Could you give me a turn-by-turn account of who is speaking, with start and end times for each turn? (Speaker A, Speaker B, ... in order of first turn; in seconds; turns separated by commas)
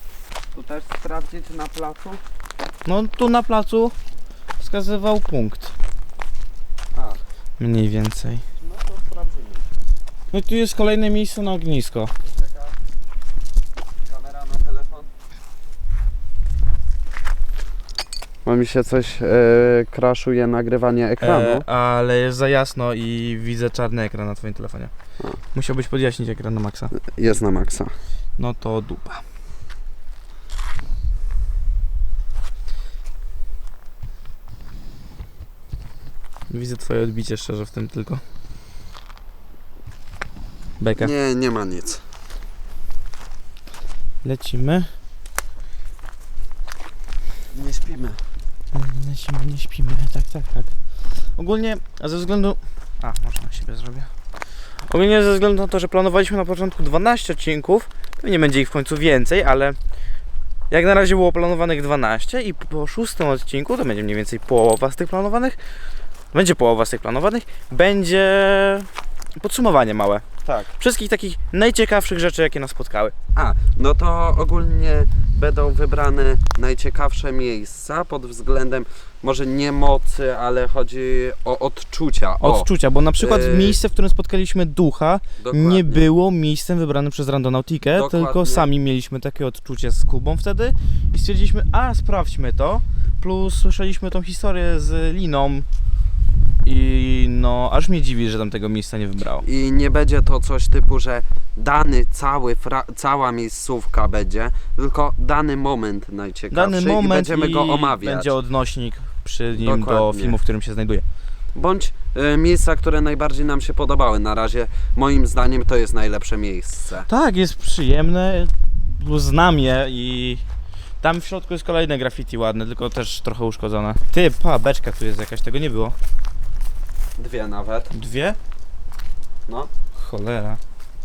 Speaker A: 0.5-2.2, Speaker B: 2.8-4.0, Speaker B: 4.6-5.7, Speaker A: 6.9-7.2, Speaker B: 7.6-8.4, Speaker A: 8.6-9.7, Speaker B: 10.3-12.1, Speaker A: 12.2-12.8, Speaker A: 14.0-15.1, Speaker A: 18.4-21.6, Speaker B: 21.2-24.9, Speaker B: 25.5-26.9, Speaker A: 26.9-27.9, Speaker B: 28.4-29.2, Speaker B: 36.5-38.2, Speaker B: 40.8-41.1, Speaker A: 41.0-42.0, Speaker B: 44.2-44.9, Speaker A: 47.5-48.2, Speaker B: 48.7-54.1, Speaker B: 54.7-59.8, Speaker B: 60.7-65.6, Speaker B: 66.3-70.2, Speaker A: 70.4-70.7, Speaker B: 70.8-73.1, Speaker A: 73.3-83.8, Speaker B: 82.4-95.7, Speaker A: 85.4-86.1, Speaker A: 87.9-88.7, Speaker B: 96.6-99.5, Speaker A: 99.4-108.3, Speaker B: 106.5-111.0, Speaker A: 109.5-110.4, Speaker A: 111.5-117.1, Speaker B: 117.1-120.4, Speaker B: 121.0-125.9, Speaker A: 127.2-127.9, Speaker B: 127.9-128.4, Speaker B: 129.9-130.6